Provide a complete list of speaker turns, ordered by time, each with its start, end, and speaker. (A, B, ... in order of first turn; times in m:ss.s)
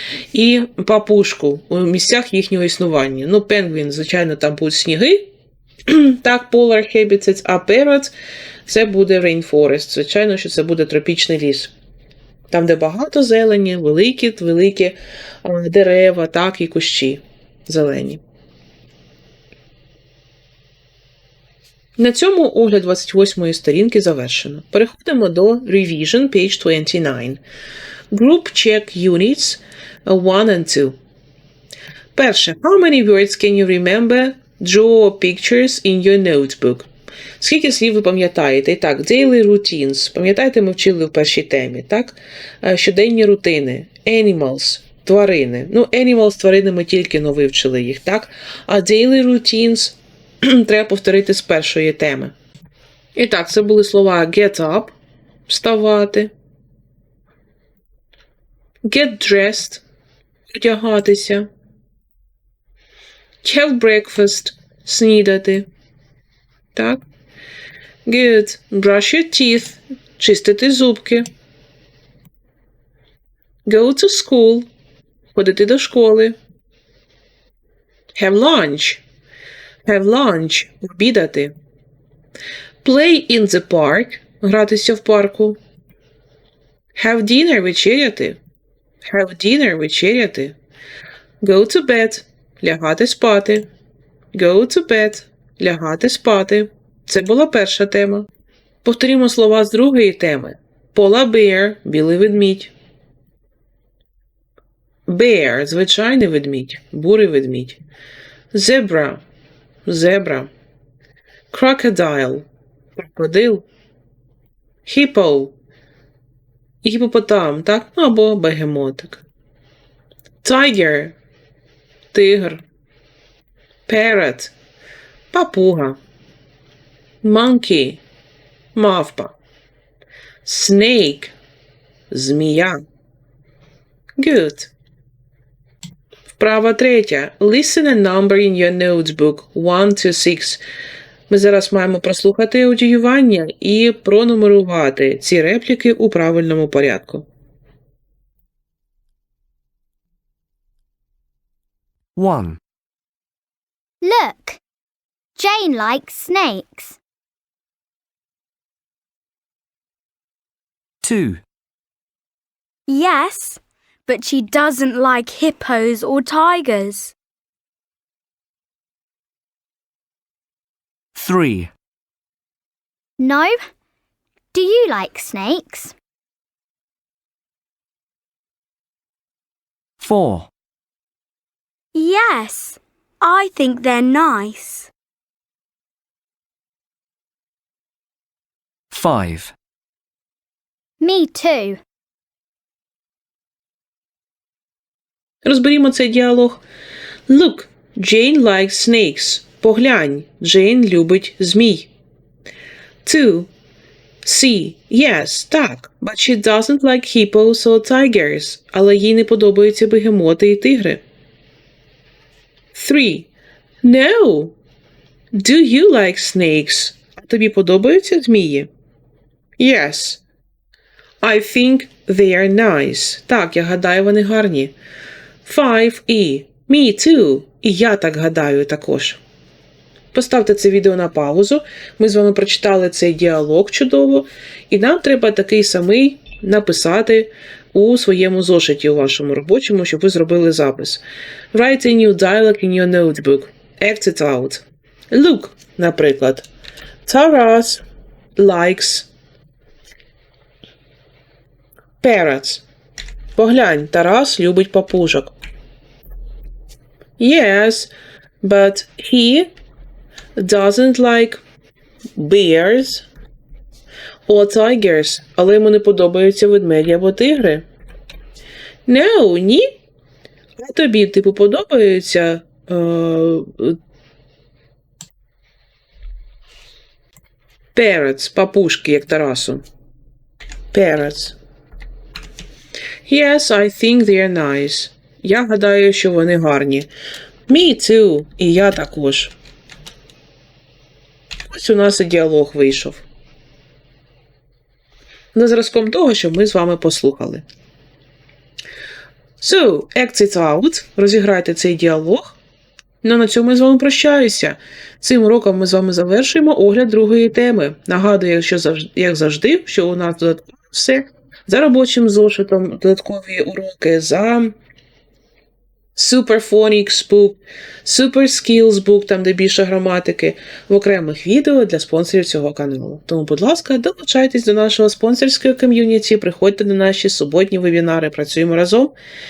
0:00.3-0:05.2 A
0:05.9-0:08.1 A
0:08.7-0:11.7 A
0:12.5-0:18.2 A
0:22.0-0:27.4 A
0:28.1-0:31.0 A
0:32.2-0:52.4 A
0:53.2-0:55.0 A
0:55.5-0:56.3 A
0:58.8-0:59.8 A
1:00.5-1:01.5 A
1:03.4-1:05.7 A
1:06.7-1:07.0 A
1:08.1-1:11.3 A
1:13.7-1:14.7 A
1:15.4-1:16.4 A
1:18.2-1:19.0 A
1:19.8-1:21.5 A
1:22.8-1:25.6 A
1:26.9-1:28.4 A
1:29.0-1:30.6 A
1:31.4-1:33.7 A
1:34.3-1:38.3 A
1:38.8-1:42.7 A
1:45.1-1:47.8 A
1:48.5-1:49.2 A
1:49.9-1:50.5 A
1:51.5-1:52.5 A
1:53.0-1:53.6 A
1:54.8-1:55.5 A
1:56.8-1:59.2 A
2:00.4-2:01.2 A
2:02.1-2:02.6 A
2:03.9-2:04.5 A
2:05.3-2:06.0 A
2:07.2-2:08.0 A
2:08.8-2:09.4 A
2:10.4-2:11.3 A
2:12.1-2:12.8 A
2:14.2-2:14.7 A
2:16.3-2:20.6 A
2:21.3-2:27.3 A
2:32.2-2:32.6 B
2:34.0-2:34.6 C
2:35.4-2:37.0 C
2:41.0-2:41.4 B
2:42.9-2:47.2 D
2:51.2-2:51.7 B
2:53.2-2:53.6 C
2:54.5-2:56.0 C
3:00.0-3:00.5 B
3:02.0-3:04.9 D
3:08.9-3:09.6 B
3:11.0-3:11.8 C
3:15.4-3:16.6 A
3:17.3-3:21.9 A
3:23.0-3:23.5 A
3:24.2-3:31.0 A
3:32.7-3:33.3 A
3:33.8-3:34.6 A
3:35.3-3:38.7 A
3:39.6-3:40.2 A
3:41.2-3:44.8 A
3:45.4-3:49.2 A
3:50.1-4:01.0 A
4:01.5-4:06.5 A
4:07.0-4:07.8 A
4:08.4-4:09.1 A
4:12.0-4:12.6 A
4:13.4-4:15.3 A
4:17.2-4:17.9 A
4:18.4-4:19.5 A
4:20.4-4:21.4 A
4:22.2-4:23.1 A
4:24.3-4:27.6 A
4:28.9-4:29.7 A
4:30.6-4:33.8 A
4:37.7-4:39.6 A
4:40.7-4:41.4 A
4:43.0-4:46.9 A
4:47.5-4:49.3 A
4:51.5-4:53.0 A
4:55.3-4:57.4 A
4:59.4-5:02.4 A
5:03.0-5:14.5 A
5:16.0-5:28.9 A